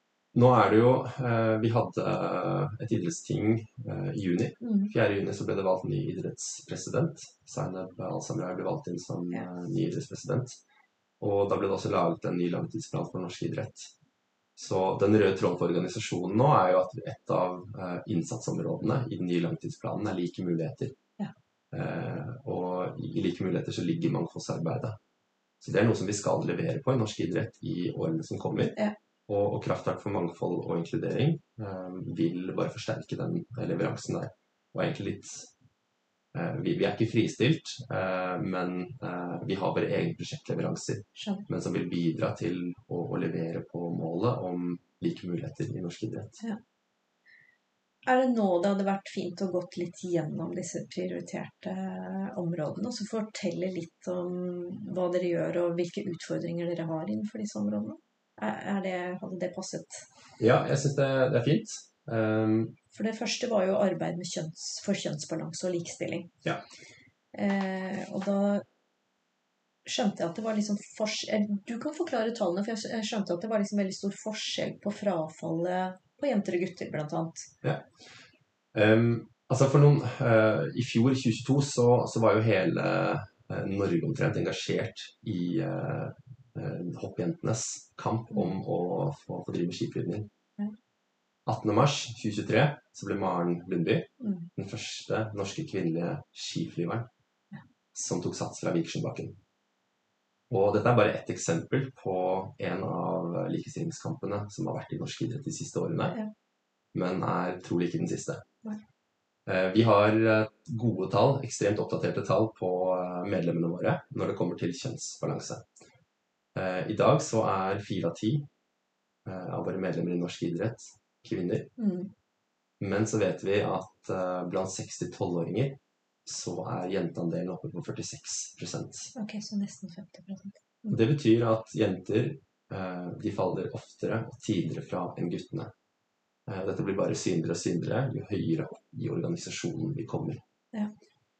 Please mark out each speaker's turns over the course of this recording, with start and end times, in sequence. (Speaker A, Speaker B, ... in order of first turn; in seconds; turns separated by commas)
Speaker A: 0.3-10.6, Speaker B: 4.6-4.9, Speaker A: 11.2-13.9, Speaker A: 14.6-21.0, Speaker A: 21.7-25.0, Speaker A: 25.6-28.7, Speaker A: 29.3-35.5, Speaker A: 36.3-46.4, Speaker B: 41.2-41.4, Speaker B: 48.0-60.0, Speaker A: 60.4-62.8, Speaker B: 62.9-66.3, Speaker B: 67.3-68.6, Speaker B: 69.8-77.5, Speaker A: 77.6-78.2, Speaker A: 78.7-90.3, Speaker A: 91.5-97.1, Speaker B: 94.2-94.5, Speaker A: 97.9-99.4, Speaker A: 100.5-106.2, Speaker A: 106.9-108.4, Speaker A: 109.5-115.7, Speaker A: 116.5-118.5, Speaker A: 119.2-121.7, Speaker B: 121.8-122.1, Speaker A: 122.8-129.1, Speaker B: 129.1-131.0, Speaker A: 130.9-135.7, Speaker A: 136.4-140.4